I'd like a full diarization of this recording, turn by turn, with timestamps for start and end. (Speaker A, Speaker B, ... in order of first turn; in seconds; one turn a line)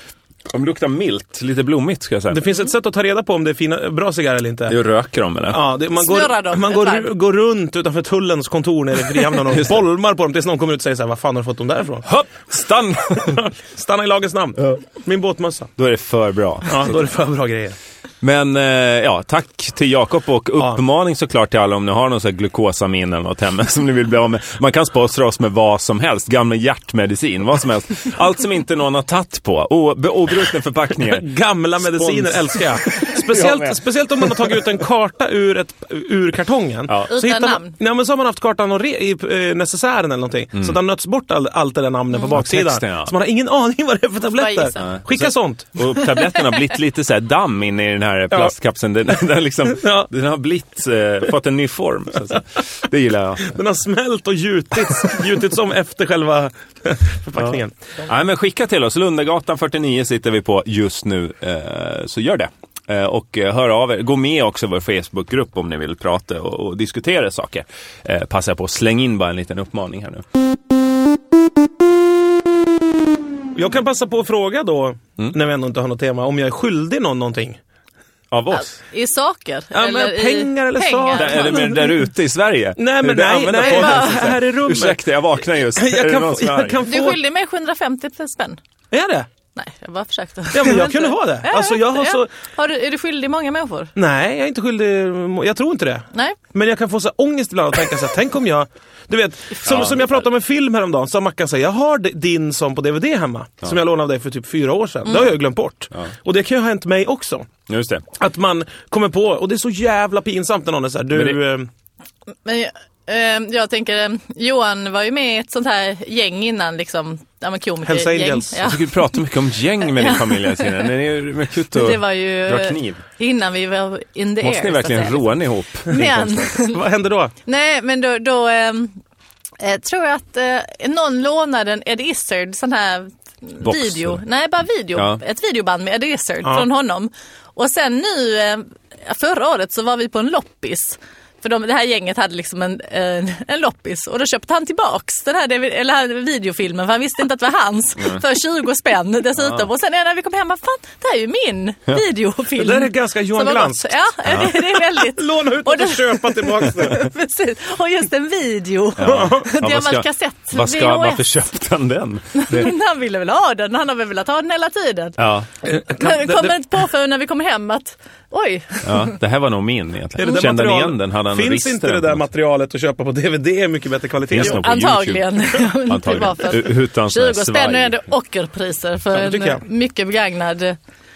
Speaker A: 0.5-2.4
Speaker B: 2.3-4.8
Speaker A: 4.7-5.6
Speaker B: 5.5-12.1
Speaker C: 6.0-7.1
Speaker A: 9.5-9.8
Speaker A: 12.0-13.4
Speaker B: 13.2-15.7
Speaker A: 15.8-17.0
Speaker B: 16.7-17.8
Speaker A: 18.2-34.7
Speaker B: 31.1-45.8
Speaker C: 37.1-37.8
Speaker A: 42.3-43.1
Speaker C: 44.3-45.0
Speaker A: 44.8-53.5
Speaker B: 49.7-50.1
Speaker B: 53.4-57.8
Speaker A: 58.0-70.2
Speaker B: 73.5-77.6
Speaker A: 78.3-78.8
Speaker C: 78.5-81.8
Speaker B: 79.7-82.0
Speaker A: 81.1-86.8
Speaker B: 82.8-85.1
Speaker C: 83.5-84.3
Speaker B: 85.7-87.2
Speaker C: 86.8-88.6
Speaker B: 88.9-89.3
Speaker C: 89.6-93.9
Speaker B: 90.5-92.3
Speaker B: 94.0-107.5
Speaker A: 99.7-100.2
Speaker A: 107.7-108.0
Speaker B: 108.2-111.7
Speaker A: 111.1-111.4
Speaker C: 112.5-119.0
Speaker B: 117.8-118.6
Speaker A: 118.6-123.0
Speaker C: 119.9-120.8
Speaker C: 121.7-125.3
Speaker A: 124.4-126.5
Speaker C: 125.9-126.8
Speaker B: 126.6-127.3
Speaker C: 127.5-128.9
Speaker C: 129.6-161.3
Speaker A: 133.6-134.2
Speaker A: 134.9-135.2
Speaker A: 149.4-149.7
Speaker B: 152.6-157.1
Speaker A: 154.3-154.5
Speaker A: 159.0-162.7
Speaker B: 159.1-159.4
Speaker C: 162.3-165.2
Speaker A: 165.2-165.5
Speaker B: 165.7-166.6
Speaker C: 165.9-169.2
Speaker A: 168.8-172.2
Speaker B: 170.2-174.7
Speaker A: 174.3-178.0
Speaker C: 174.4-180.8
Speaker B: 179.1-179.6